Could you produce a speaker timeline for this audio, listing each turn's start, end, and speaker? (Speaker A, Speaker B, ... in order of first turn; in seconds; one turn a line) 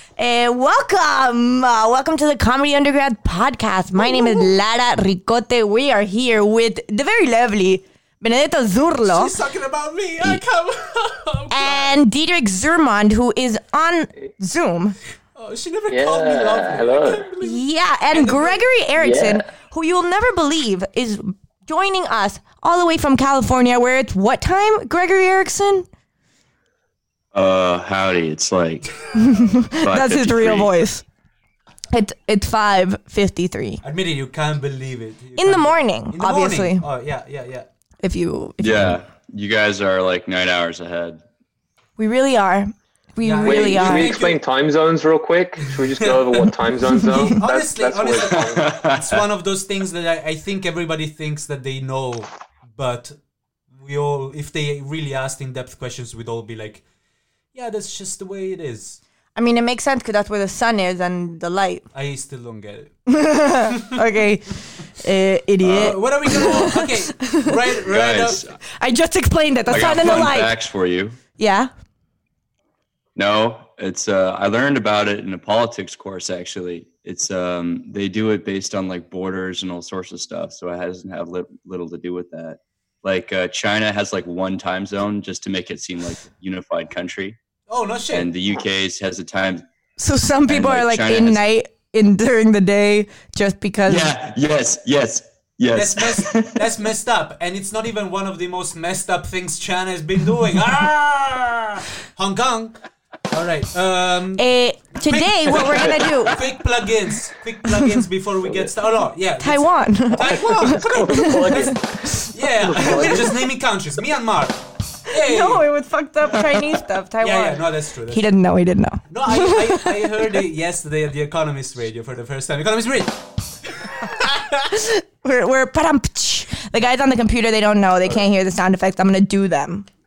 Speaker A: 0.2-9.3
Speaker B: 4.0-4.5
Speaker B: 9.0-12.0
Speaker A: 11.5-15.0
Speaker B: 15.4-17.6
Speaker C: 15.9-17.2
Speaker A: 17.4-25.9
Speaker B: 18.1-18.6
Speaker C: 19.0-19.4
Speaker D: 27.3-28.9
Speaker A: 29.1-31.1
Speaker D: 29.8-30.7
Speaker A: 31.9-33.8
Speaker B: 33.8-37.7
Speaker A: 35.4-36.9
Speaker A: 38.0-39.0
Speaker D: 38.6-41.2
Speaker A: 42.0-44.2
Speaker B: 43.2-44.4
Speaker C: 43.4-48.7
Speaker B: 45.7-53.2
Speaker D: 48.3-49.2
Speaker B: 53.8-56.8
Speaker B: 57.5-59.0
Speaker A: 59.4-61.9
Speaker B: 61.9-63.0
Speaker A: 63.1-67.7
Speaker B: 63.7-64.0
Speaker B: 65.6-68.4
Speaker D: 66.3-66.7
Speaker D: 67.8-68.6
Speaker A: 68.8-70.5
Speaker D: 69.7-71.2
Speaker A: 71.4-71.7
Speaker D: 73.2-87.4
Speaker B: 87.7-88.3
Speaker D: 88.1-89.7
Speaker A: 90.0-94.1
Speaker D: 90.5-91.4
Speaker D: 93.9-96.7
Speaker B: 95.7-102.8
Speaker B: 103.3-104.5
Speaker A: 104.4-106.4
Speaker B: 105.0-115.7
Speaker A: 107.7-107.9
Speaker A: 109.4-111.7
Speaker C: 110.2-113.5
Speaker A: 115.1-120.4
Speaker B: 117.2-118.3
Speaker B: 119.1-123.2
Speaker A: 124.6-129.9